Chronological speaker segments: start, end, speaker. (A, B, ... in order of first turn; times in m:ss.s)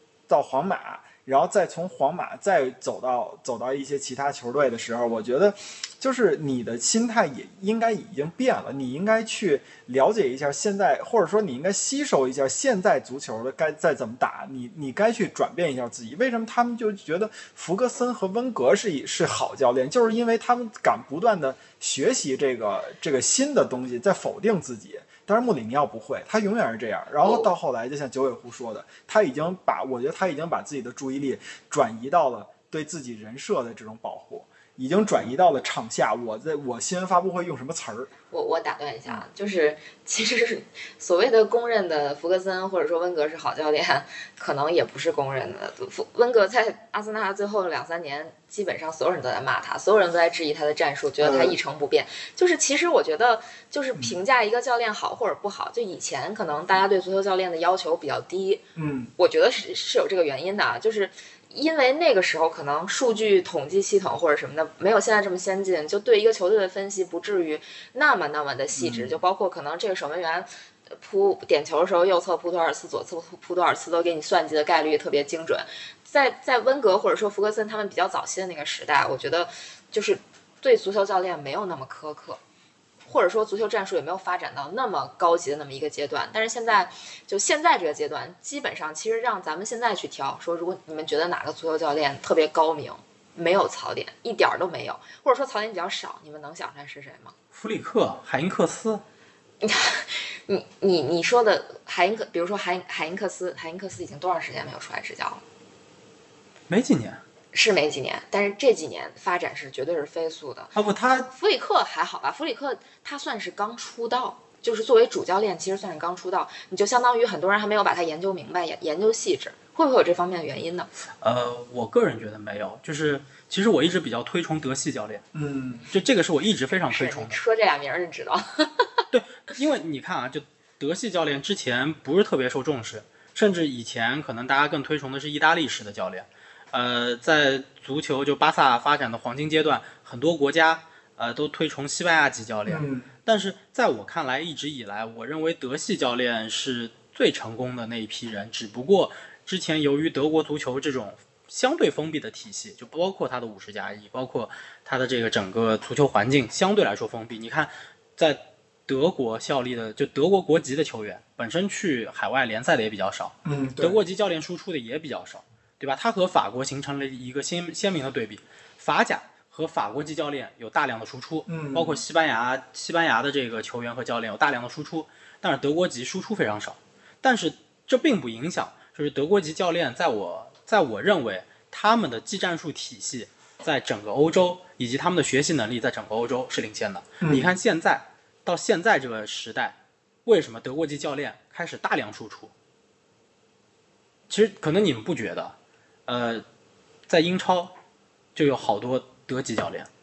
0:00.3-0:38.1 A
0:38.3-0:58.6 B
0:51.2-0:51.6 A
0:58.8-0:59.1 A
0:59.2-1:22.4 B
1:08.8-1:09.1 A
1:23.0-1:37.3 B
1:37.5-1:39.0 C
1:39.6-1:45.4 B
1:46.7-1:47.2 C
1:47.5-1:50.8 B
1:50.8-1:51.3 C
1:51.3-2:00.9 B
2:01.2-2:05.2 C
2:05.3-2:05.9 A
2:05.9-2:07.4 C
2:06.9-2:09.0 B
2:09.1-3:12.5 C
2:22.7-2:23.1 A
2:43.4-2:44.0 A
2:51.5-2:52.0 A
3:07.2-3:07.5 A
3:14.3-3:15.6 C
3:16.1-3:16.4 C
3:17.1-3:17.7 C
3:18.4-3:19.9 C